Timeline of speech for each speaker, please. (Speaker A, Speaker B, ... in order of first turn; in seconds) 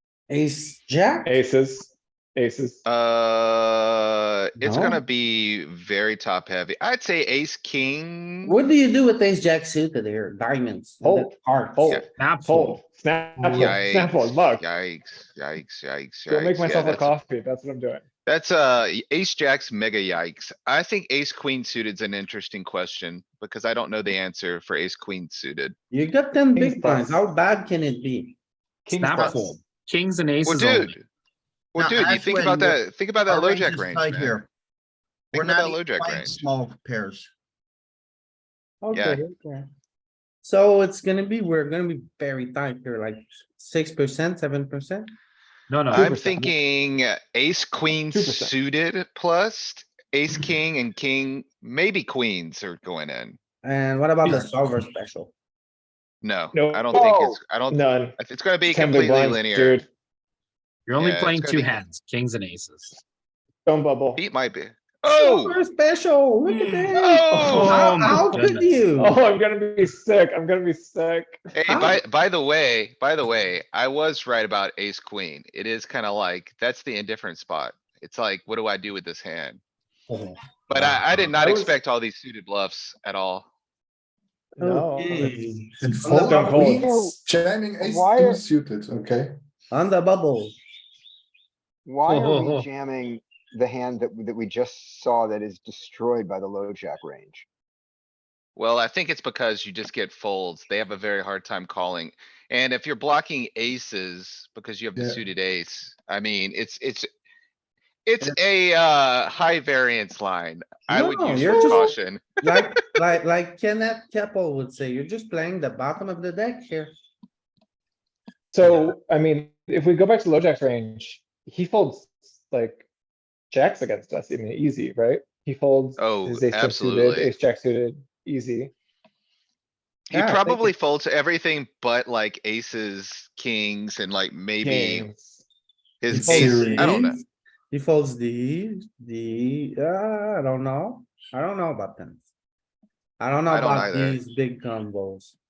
Speaker A: 0.3-1.4, 4.6-5.0, 8.4-12.8, 25.9-28.4, 38.8-39.7, 40.4-45.1, 53.6-55.3, 65.1-69.2, 71.7-72.0, 80.1-81.0, 84.6-86.5, 89.7-90.5, 110.9-116.9, 130.1-130.7, 136.1-142.2, 143.2-145.3
Speaker B: 1.2-2.8, 11.0-14.6, 16.3-18.0, 26.5-27.2, 45.9-46.5, 48.1-48.5, 56.5-57.1, 57.7-59.9, 63.6-64.2, 67.3-68.3, 69.0-71.5, 81.4-81.7, 84.5-85.4, 86.0-87.2, 118.5-122.8, 123.5-128.7, 134.6-135.4
Speaker C: 2.8-8.5, 13.5-17.1, 18.2-25.7, 30.4-31.0, 31.7-34.4, 35.3-36.4, 38.9-39.2, 45.9-53.4, 56.2-59.8, 61.0-61.8, 64.2-65.6, 66.9-68.0, 71.5-79.6, 80.7-83.5, 98.5-107.1, 108.0-112.3, 126.0-127.3, 130.1-135.1, 136.0-137.2, 143.5-144.2
Speaker D: 12.2-12.7, 28.9-30.9, 45.7-46.2, 60.9-63.0, 66.4-68.7, 92.0-92.7
Speaker E: 28.9-29.6, 31.7-34.5, 35.3-37.3
Speaker F: 56.9-57.4, 86.5-87.1, 87.8-88.4, 91.8-97.5
Speaker G: 85.8-89.3, 105.0-105.2, 136.1-136.9